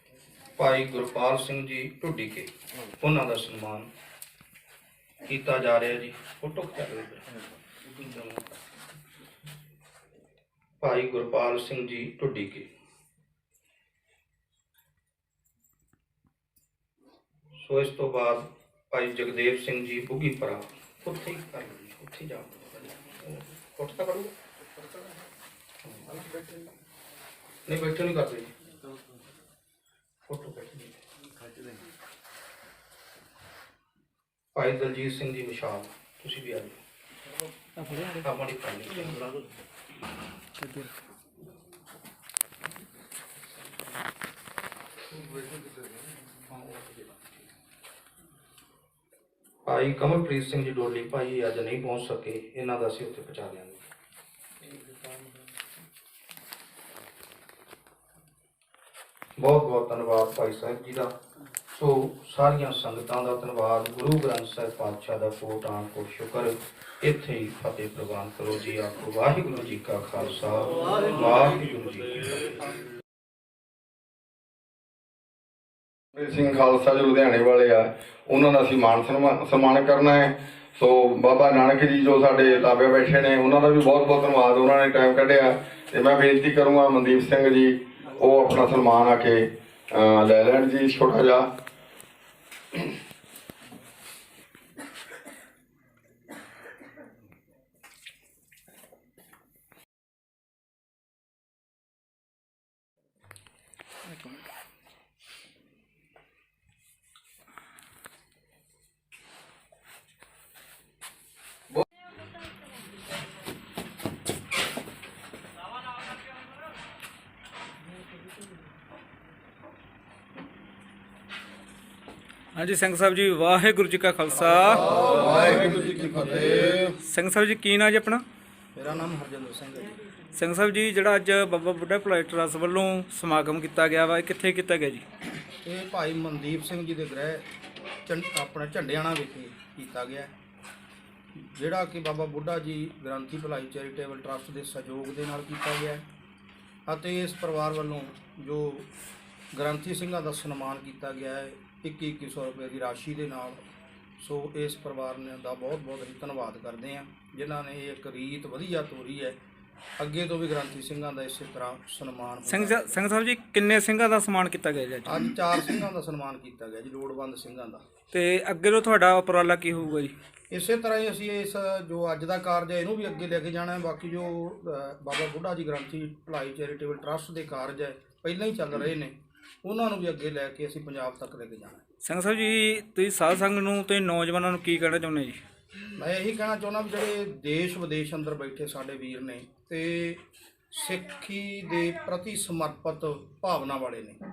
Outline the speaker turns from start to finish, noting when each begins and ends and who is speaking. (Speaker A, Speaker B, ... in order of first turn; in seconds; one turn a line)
Speaker A: 0.6-3.9
Speaker A: 5.2-7.3
Speaker A: 7.9-8.5
Speaker A: 10.8-12.7
Speaker A: 17.6-24.3
Speaker A: 25.9-26.1
Speaker A: 27.7-28.5
Speaker A: 30.3-31.0
Speaker A: 34.5-36.8
Speaker B: 37.8-38.2
Speaker A: 38.2-39.2
Speaker B: 40.6-40.9
Speaker A: 46.5-46.9
Speaker A: 49.6-53.9
Speaker A: 59.4-61.1
Speaker A: 61.7-72.6
Speaker C: 76.1-91.5
Speaker B: 104.1-104.4
Speaker B: 122.5-124.9
Speaker A: 124.5-126.8
Speaker B: 126.7-128.2
Speaker A: 128.8-130.0
Speaker B: 130.3-135.0
Speaker A: 135.6-137.4
Speaker A: 138.1-140.3
Speaker A: 141.4-146.1
Speaker A: 146.9-148.9
Speaker A: 149.5-153.7
Speaker A: 154.2-159.4
Speaker A: 160.0-163.0
Speaker B: 162.5-165.3
Speaker A: 165.1-167.8
Speaker B: 168.1-170.1
Speaker A: 170.5-181.8
Speaker B: 182.0-185.4
Speaker A: 185.9-194.2